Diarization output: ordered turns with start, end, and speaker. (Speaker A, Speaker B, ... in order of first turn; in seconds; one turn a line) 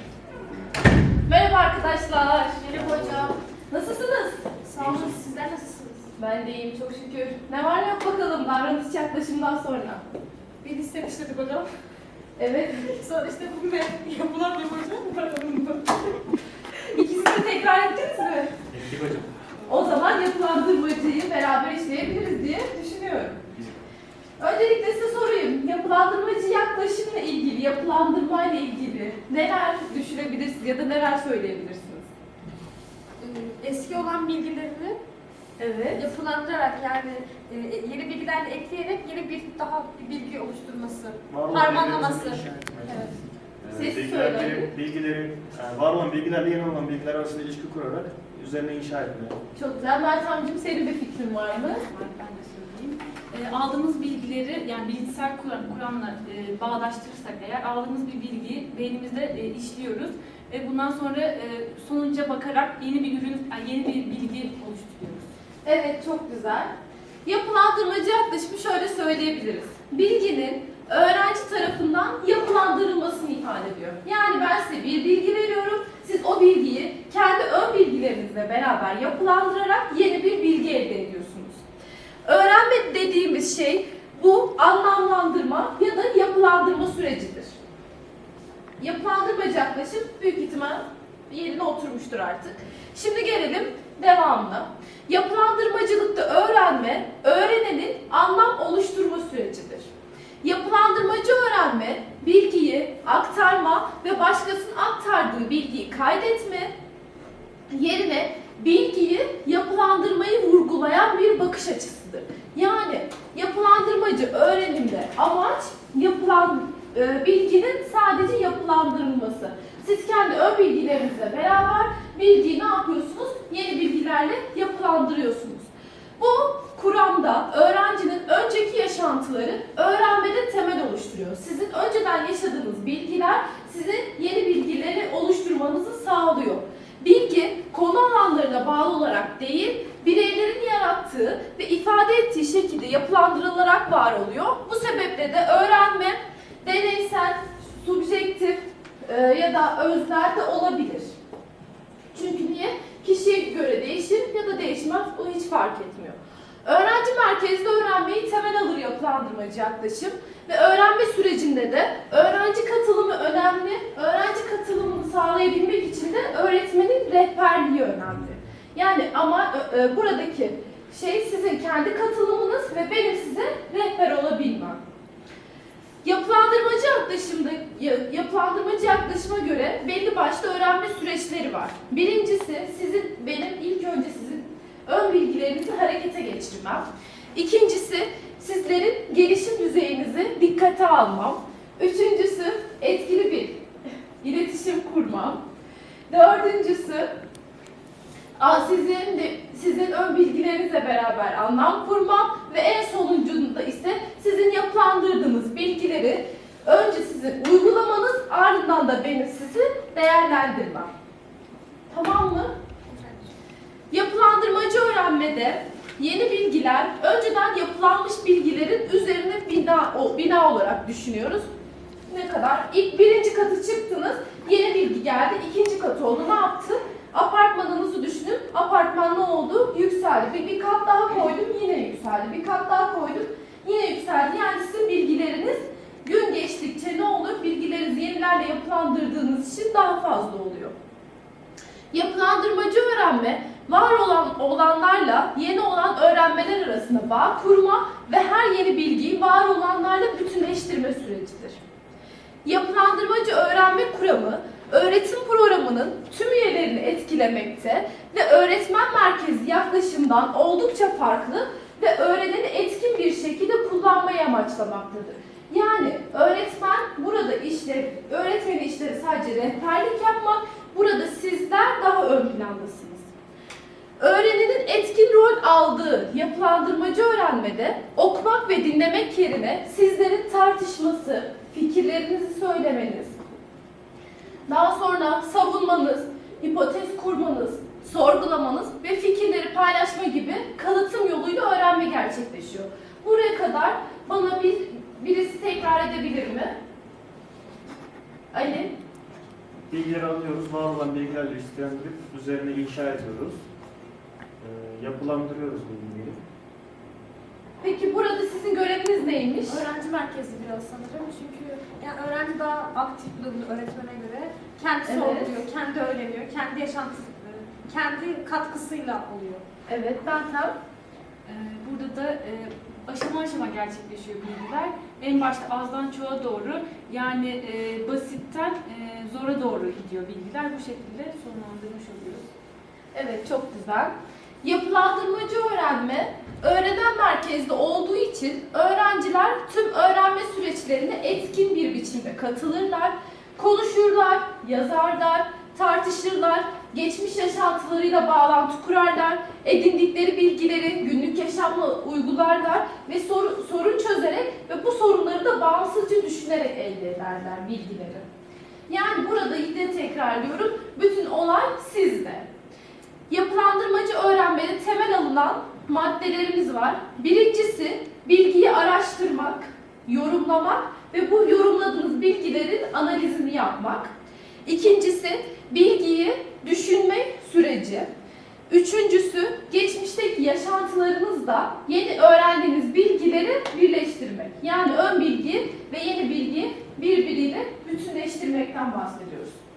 Speaker A: 1.3-4.5
Speaker B: 2.7-3.4
Speaker C: 4.7-6.1
Speaker B: 4.8-5.1
Speaker A: 6.2-10.0
Speaker C: 10.6-11.7
Speaker A: 12.4-12.8
Speaker C: 12.8-16.1
Speaker A: 16.9-18.6
Speaker B: 18.7-19.3
Speaker A: 19.7-23.4
Speaker A: 24.4-32.1
Speaker C: 33.2-35.0
Speaker A: 35.6-36.0
Speaker C: 35.9-43.1
Speaker B: 41.3-43.1
Speaker B: 43.6-49.4
Speaker A: 43.8-44.7
Speaker A: 49.6-51.8
Speaker D: 51.7-65.2
Speaker A: 65.7-66.7
Speaker A: 67.2-81.6
Speaker A: 82.2-87.5
Speaker A: 88.8-99.9
Speaker A: 100.4-106.7
Speaker A: 107.7-151.1
Speaker A: 152.1-174.8
Speaker A: 176.0-193.6
Speaker A: 194.2-195.4
Speaker A: 196.1-197.1
Speaker A: 198.4-210.9
Speaker A: 211.9-212.5
Speaker C: 212.9-213.3
Speaker A: 213.9-221.5
Speaker A: 222.1-240.8
Speaker A: 241.9-251.6
Speaker A: 252.4-273.1
Speaker A: 274.0-283.2
Speaker A: 284.5-296.6
Speaker A: 298.3-298.7
Speaker B: 299.7-303.4
Speaker B: 304.4-306.2
Speaker A: 307.6-309.6
Speaker C: 309.5-319.4
Speaker A: 314.9-315.4
Speaker A: 319.7-320.5
Speaker D: 321.3-332.3
Speaker A: 332.9-358.1
Speaker A: 358.7-362.3
Speaker A: 363.1-373.9
Speaker A: 374.4-377.9
Speaker A: 378.5-389.4